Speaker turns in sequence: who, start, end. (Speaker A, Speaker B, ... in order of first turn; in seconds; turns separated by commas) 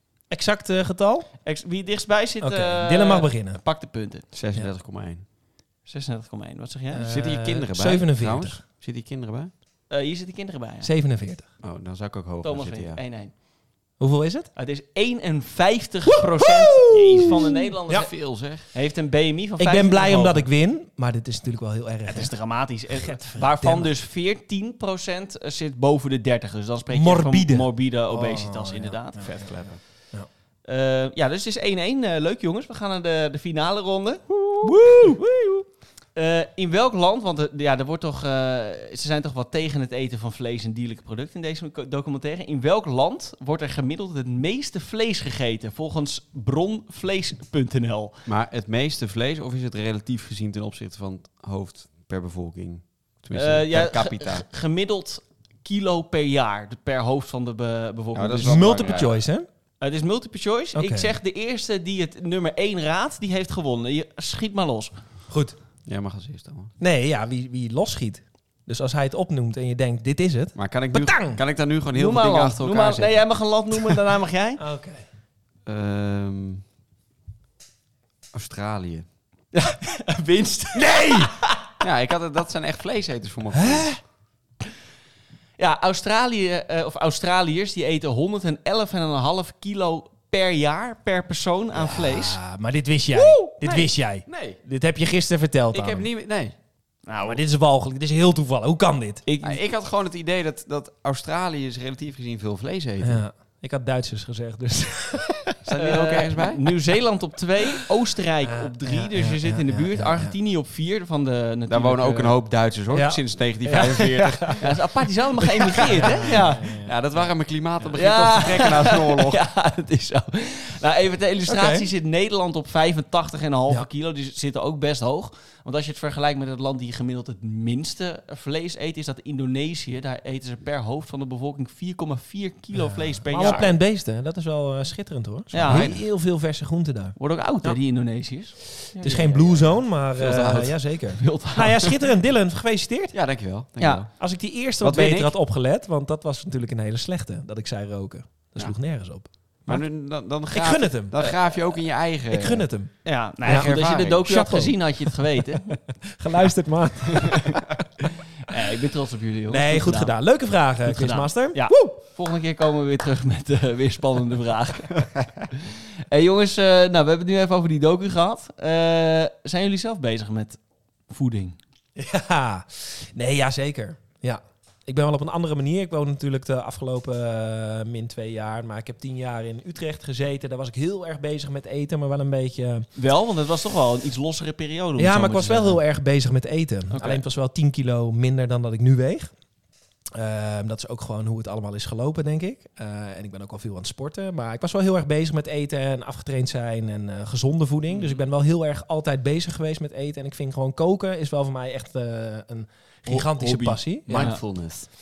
Speaker A: 0.3-1.3, Speaker B: 1.4-4.2, Speaker A: 2.4-3.6, Speaker C: 4.3-5.2, Speaker B: 5.8-7.1, Speaker A: 6.9-8.6, Speaker C: 7.1-9.5, Speaker B: 9.9-10.9, Speaker A: 10.8-11.4, Speaker C: 11.6-13.0, Speaker B: 12.4-13.3, Speaker A: 14.0-14.5, Speaker B: 14.6-20.4, Speaker A: 16.1-18.1, Speaker C: 17.9-18.7, Speaker A: 19.6-22.3, Speaker B: 22.1-29.8, Speaker A: 23.0-23.9, Speaker A: 26.9-29.6, Speaker B: 30.6-48.1, Speaker C: 48.2-54.4, Speaker B: 53.3-58.7, Speaker C: 58.1-59.1, Speaker A: 58.4-59.5, Speaker B: 59.8-64.9, Speaker A: 60.7-61.1, Speaker A: 65.3-65.5, Speaker C: 65.8-66.7, Speaker A: 66.8-71.4, Speaker C: 70.5-73.2, Speaker B: 71.9-74.6, Speaker A: 74.6-75.0, Speaker C: 75.7-76.6, Speaker C: 78.3-79.0, Speaker B: 79.5-81.6, Speaker A: 80.7-81.3, Speaker C: 81.8-84.0, Speaker A: 83.5-84.0, Speaker B: 85.6-92.4, Speaker A: 91.7-96.0, Speaker C: 93.5-94.6, Speaker C: 95.7-96.5, Speaker B: 97.0-97.4, Speaker A: 97.2-99.2, Speaker B: 99.2-99.6, Speaker C: 99.4-103.2, Speaker A: 103.0-105.6, Speaker C: 105.6-106.7, Speaker B: 105.8-112.4, Speaker A: 108.5-110.3, Speaker C: 111.7-114.7, Speaker A: 112.9-114.6, Speaker B: 114.6-116.8, Speaker C: 115.7-119.4, Speaker A: 115.9-116.9, Speaker B: 117.9-133.7, Speaker A: 121.5-121.9, Speaker A: 132.8-137.8, Speaker C: 133.4-133.7, Speaker B: 135.5-136.0, Speaker C: 135.6-136.0, Speaker B: 137.2-142.0, Speaker A: 139.0-143.1, Speaker C: 140.2-140.7, Speaker C: 143.1-144.1, Speaker B: 143.8-144.0, Speaker A: 144.2-149.8, Speaker C: 144.8-145.3, Speaker C: 149.7-152.7, Speaker A: 150.4-151.2, Speaker A: 152.3-152.9, Speaker B: 153.0-155.8, Speaker A: 153.4-153.7, Speaker C: 153.5-154.3, Speaker A: 154.2-155.2, Speaker A: 156.1-157.6, Speaker B: 157.2-157.5, Speaker B: 158.5-160.1, Speaker A: 159.5-162.0, Speaker B: 160.8-170.6, Speaker B: 171.1-171.6, Speaker A: 172.0-182.9, Speaker B: 182.9-185.8, Speaker A: 185.0-189.3, Speaker B: 186.9-187.2, Speaker A: 190.1-204.4, Speaker B: 197.9-198.2, Speaker C: 203.1-204.9, Speaker B: 204.1-204.4